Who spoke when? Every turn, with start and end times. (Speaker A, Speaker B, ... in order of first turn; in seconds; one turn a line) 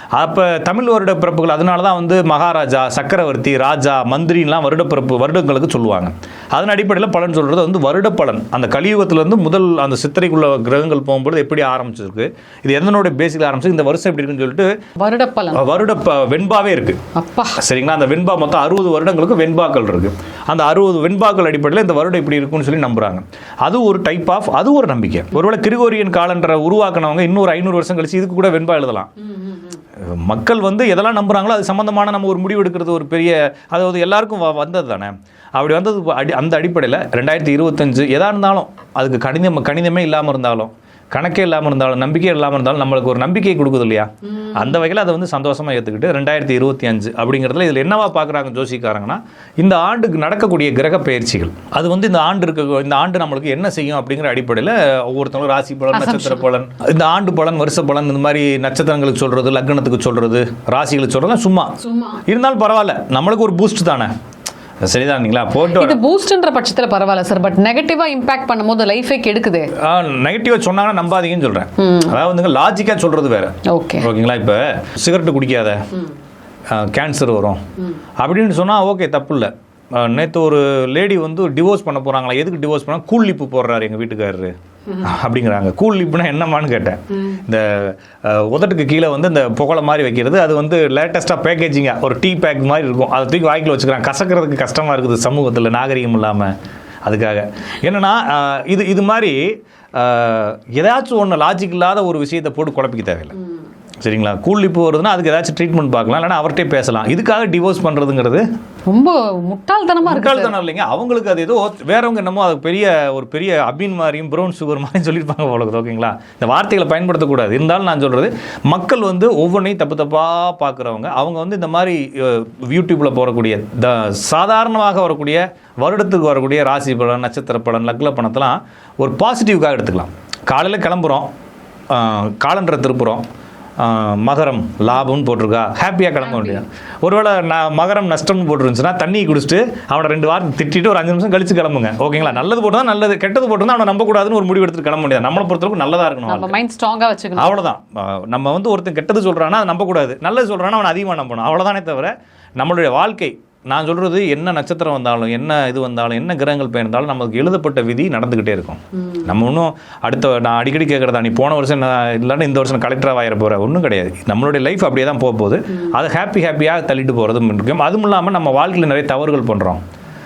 Speaker A: 0.1-14.7
Speaker B: 15.0-15.6
Speaker A: 15.5-17.0
Speaker B: 17.1-17.6
Speaker A: 17.6-29.1
Speaker B: 29.3-29.8
Speaker A: 29.9-61.7
Speaker B: 44.3-44.7
Speaker B: 55.9-56.4
Speaker B: 61.8-62.2
Speaker A: 62.2-64.1
Speaker A: 64.8-66.0
Speaker B: 65.7-69.7
Speaker A: 69.7-75.8
Speaker B: 71.8-72.1
Speaker B: 73.7-74.1
Speaker A: 76.7-77.6
Speaker A: 78.2-103.3
Speaker A: 104.0-108.5
Speaker B: 108.9-110.5
Speaker A: 110.0-131.3
Speaker A: 131.9-133.2
Speaker A: 133.8-146.6
Speaker B: 146.3-147.6
Speaker A: 147.3-169.8
Speaker B: 159.0-159.3